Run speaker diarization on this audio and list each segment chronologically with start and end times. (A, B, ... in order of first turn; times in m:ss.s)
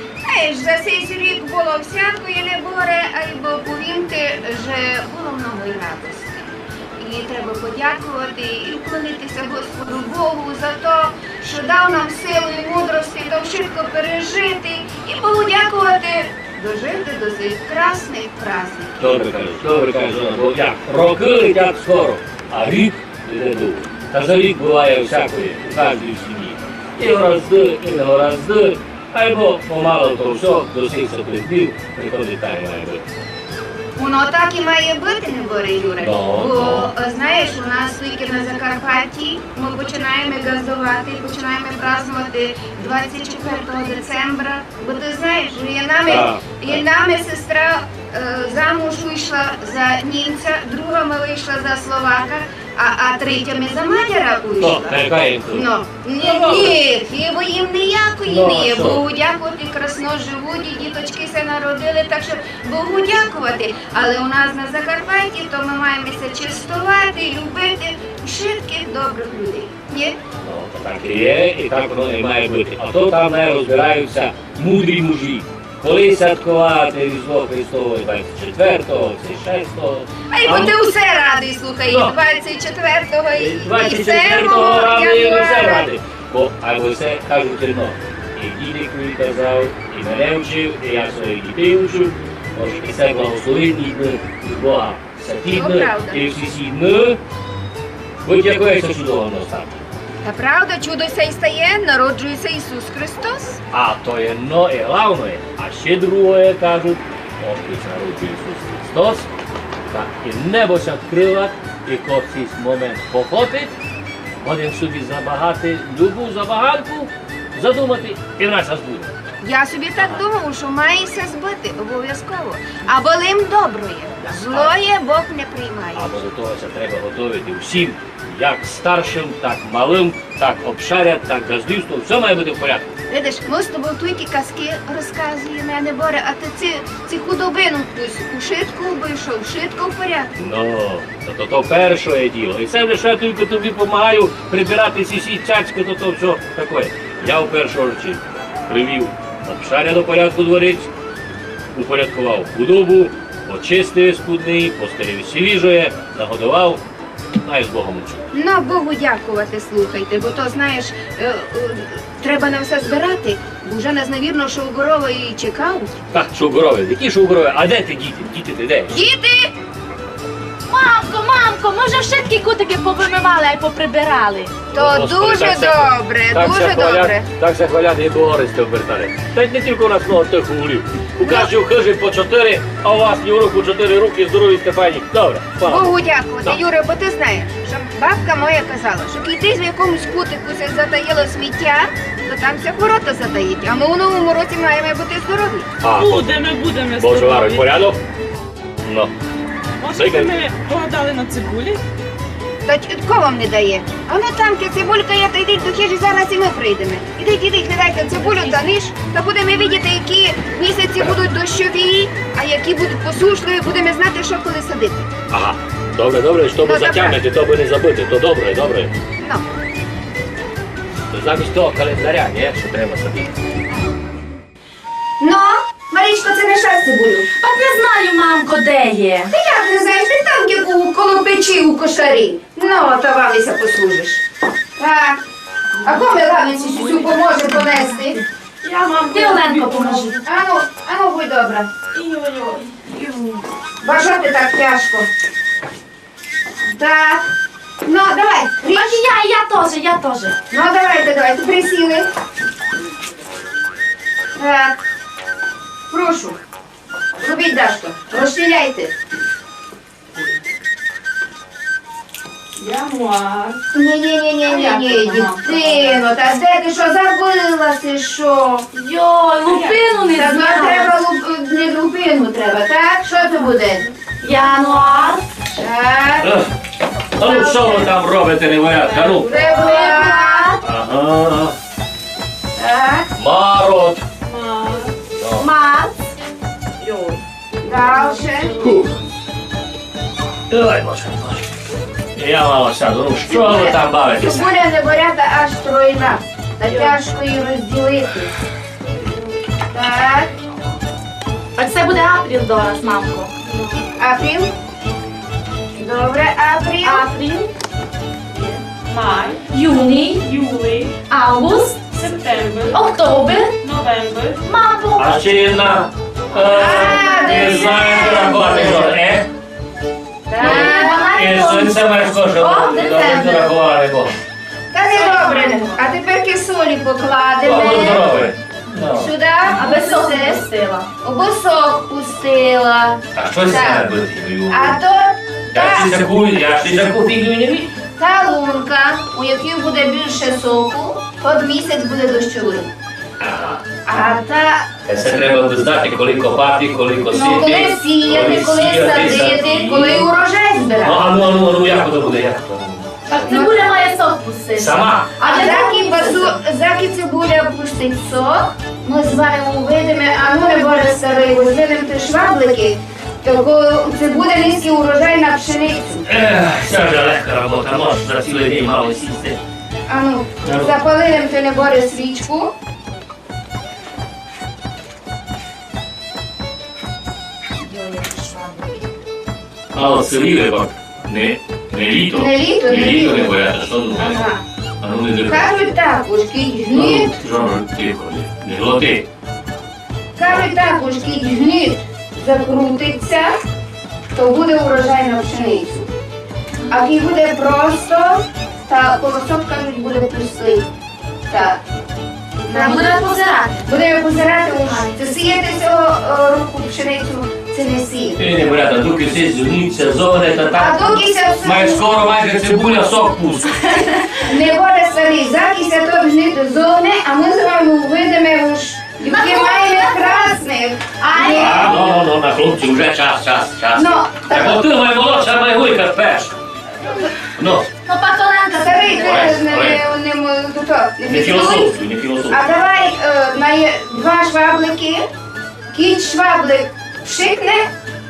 0:00.2-0:19.0 A
0:19.0-0:33.1 B
0:34.0-0:55.0 A
0:36.0-0:36.9 B
0:46.1-0:46.8 B
0:54.6-0:56.8 B
0:55.5-1:10.2 A
0:58.2-0:59.0 B
1:10.4-1:20.7 B
1:20.3-1:25.9 A
1:21.9-1:22.1 B
1:23.3-1:37.2 B
1:35.5-1:36.2 A
1:38.2-1:39.8 B
1:40.2-1:43.6 A
1:43.7-1:49.3 B
1:49.9-1:53.7 B
1:54.4-1:59.1 B
1:59.4-2:06.0 A
2:04.5-2:04.7 B
2:05.9-2:12.9 B
2:13.1-2:20.3 A
2:20.4-2:30.9 B
2:31.7-2:36.8 B
2:37.4-2:38.2 B
2:38.3-2:46.0 A
2:46.1-2:49.0 B
2:48.9-2:49.5 A
2:50.7-2:54.5 C
2:54.7-3:05.9 B
2:54.7-2:57.3 A
3:01.2-3:01.5 A
3:05.6-3:15.7 A
3:15.8-3:16.3 B
3:16.0-3:17.8 D
3:17.0-3:18.0 B
3:18.8-3:19.1 B
3:19.8-3:21.8 D
3:19.9-3:20.4 B
3:22.6-3:35.1 A
3:35.3-3:38.9 B
3:36.6-3:37.2 A
3:39.2-3:39.4 A
3:41.1-3:43.3 B
3:45.2-3:47.3 A
3:47.4-3:49.3 C
3:49.3-3:54.2 A
3:54.8-3:55.2 A
3:55.8-3:58.2 A
3:56.8-3:58.2 C
3:58.6-4:00.2 D
3:59.1-4:00.2 C
4:00.2-4:01.7 A
4:01.9-4:03.4 D
4:03.8-4:05.1 A
4:06.7-4:07.3 A
4:07.8-4:09.0 A
4:08.7-4:10.3 C
4:10.5-4:12.1 A
4:14.4-4:14.8 A
4:15.9-4:16.4 A
4:17.2-4:18.9 A
4:22.6-4:23.6 D
4:23.7-4:28.7 A
4:24.4-4:26.0 D
4:28.7-4:30.9 C
4:29.5-4:29.8 D
4:30.1-4:34.6 A
4:34.2-4:35.2 C
4:35.6-4:36.3 A
4:36.2-4:36.5 B
4:37.2-4:39.3 B
4:37.2-4:37.9 A
4:38.8-4:39.9 D
4:39.2-4:40.6 A
4:39.4-4:40.6 C
4:40.6-4:41.6 B
4:42.6-4:43.1 A
4:43.2-4:44.0 B
4:44.2-4:44.9 D
4:45.2-4:45.4 B
4:45.4-4:45.9 C
4:46.8-4:47.2 D
4:47.6-4:48.7 A
4:47.8-4:48.9 D
4:50.5-4:51.5 B
4:52.2-4:54.5 B
4:53.3-4:58.3 A
4:56.6-4:57.0 D
4:59.7-5:00.4 A
5:01.6-5:03.4 C
5:04.0-5:04.5 A
5:05.8-5:07.1 A
5:06.8-5:07.5 C
5:08.4-5:09.4 D
5:09.5-5:10.2 C
5:10.1-5:11.0 D
5:11.1-5:11.8 C
5:11.9-5:12.8 D
5:12.7-5:13.6 C
5:13.6-5:14.4 D
5:14.4-5:15.3 C
5:15.0-5:19.3 B
5:16.4-5:18.9 A
5:17.0-5:18.8 C
5:20.3-5:21.1 A
5:20.4-5:23.5 C
5:20.4-5:24.1 B
5:24.7-5:28.1 A
5:24.9-5:25.8 D
5:27.4-5:29.1 B
5:29.0-5:30.4 A
5:29.5-5:30.9 C
5:31.0-5:33.9 A
5:33.2-5:34.8 B
5:34.5-5:36.0 A
5:35.5-5:37.7 B
5:38.0-5:42.7 A
5:43.2-5:43.6 B
5:43.8-5:44.7 A
5:44.8-5:50.1 B
5:47.1-5:51.0 A
5:50.8-5:52.9 B
5:53.1-5:56.4 C
5:53.1-5:53.7 A
5:54.6-5:55.1 B
5:55.2-6:06.0 A
6:06.1-6:09.4 B
6:09.9-6:12.5 A
6:10.4-6:10.7 B
6:17.7-6:18.7 C
6:19.7-6:24.2 B
6:22.1-6:23.4 A
6:24.0-6:24.4 A
6:24.8-6:25.5 B
6:25.3-6:27.1 A
6:26.7-6:29.1 B
6:30.2-6:33.3 A
6:30.2-6:30.5 B
6:34.1-6:35.9 A
6:36.7-6:40.7 A
6:41.3-6:41.6 A
6:42.4-6:48.2 A
6:42.5-6:43.6 C
6:48.2-6:53.7 B
6:50.6-6:51.8 A
6:54.1-7:01.8 A
6:59.0-7:00.4 C
7:01.0-7:01.7 C
7:01.3-7:06.3 B
7:03.8-7:04.6 A
7:07.4-7:07.7 B
7:07.8-7:09.4 C
7:08.5-7:11.7 A
7:09.0-7:09.8 B
7:11.1-7:12.4 B
7:12.3-7:15.0 A
7:15.7-7:17.7 A